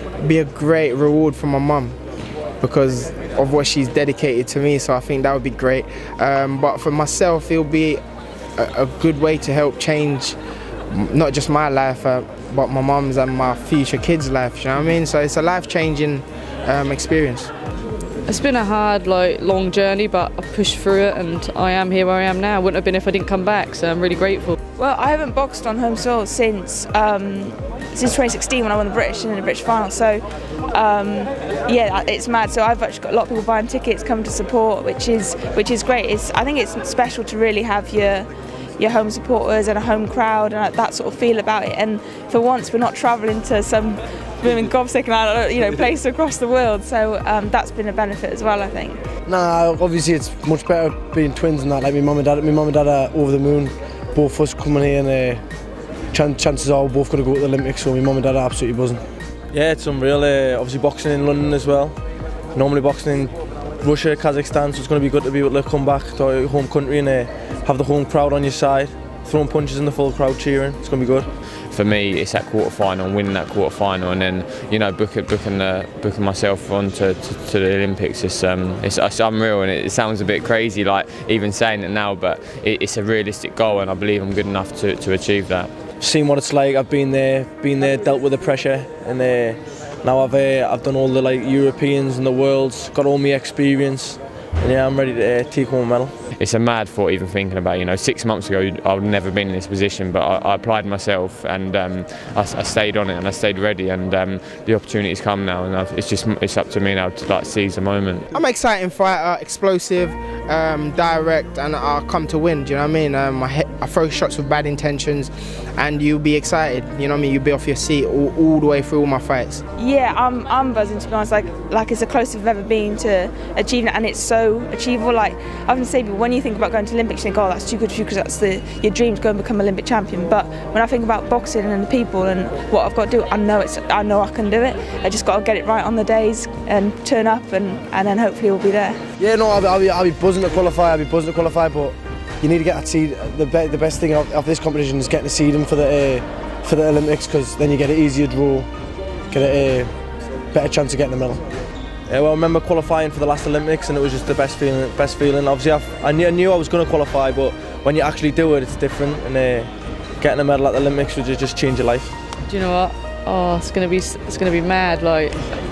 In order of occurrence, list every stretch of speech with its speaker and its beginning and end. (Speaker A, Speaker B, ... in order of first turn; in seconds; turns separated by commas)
Speaker A: 0.2-2.0, Speaker A: 2.6-8.0, Speaker A: 8.6-10.4, Speaker A: 10.9-17.5, Speaker B: 18.3-24.6, Speaker C: 24.8-49.0, Speaker D: 49.2-55.4, Speaker D: 56.1-59.0, Speaker E: 59.5-62.0, Speaker E: 62.5-71.3, Speaker F: 71.6-85.7, Speaker E: 86.0-96.1, Speaker F: 96.3-108.2, Speaker A: 108.3-119.6, Speaker C: 119.8-139.0, Speaker D: 139.2-148.7, Speaker D: 149.3-149.9, Speaker D: 150.5-151.4, Speaker E: 152.1-162.1, Speaker B: 162.5-165.4